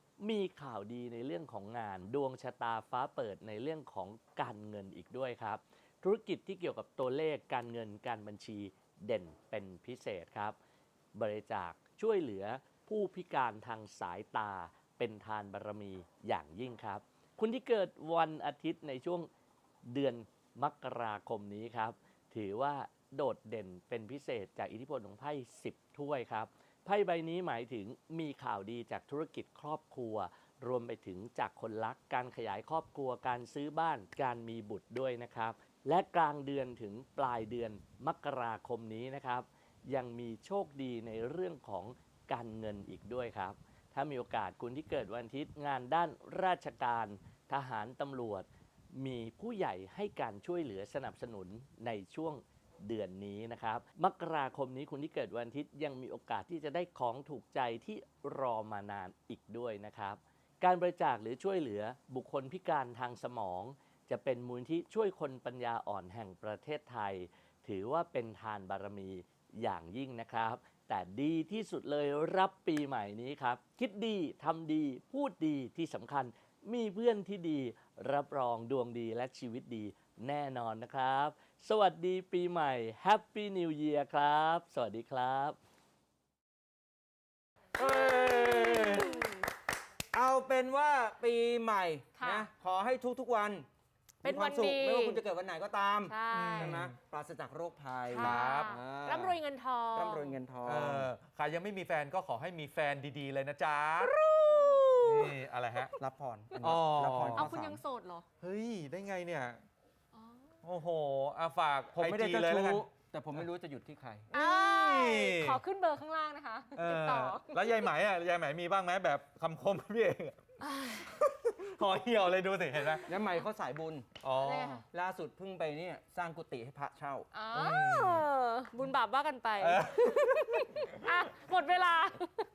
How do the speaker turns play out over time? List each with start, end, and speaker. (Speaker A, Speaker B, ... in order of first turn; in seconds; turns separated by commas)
Speaker A: 0.2-10.6, Speaker A: 11.1-19.3, Speaker A: 19.9-85.6, Speaker B: 87.8-89.3, Speaker C: 87.8-89.5, Speaker B: 90.1-93.7, Speaker C: 92.2-92.5, Speaker C: 94.2-95.2, Speaker B: 94.2-99.4, Speaker C: 96.0-96.8, Speaker D: 96.3-97.0, Speaker C: 98.1-100.4, Speaker D: 98.2-98.8, Speaker B: 99.9-101.1, Speaker D: 100.6-105.9, Speaker B: 104.0-105.4, Speaker B: 106.0-107.8, Speaker D: 106.6-107.5, Speaker C: 107.3-108.3, Speaker D: 108.4-109.6, Speaker C: 110.1-110.5, Speaker D: 110.6-112.8, Speaker B: 111.9-114.3, Speaker C: 114.3-117.8, Speaker D: 114.3-115.6, Speaker D: 116.8-120.4, Speaker C: 120.6-121.1, Speaker D: 121.0-123.2, Speaker B: 123.1-124.1, Speaker D: 124.2-124.7, Speaker C: 124.4-124.8, Speaker B: 124.7-127.3, Speaker C: 127.3-132.5, Speaker D: 127.5-128.2, Speaker D: 129.6-130.8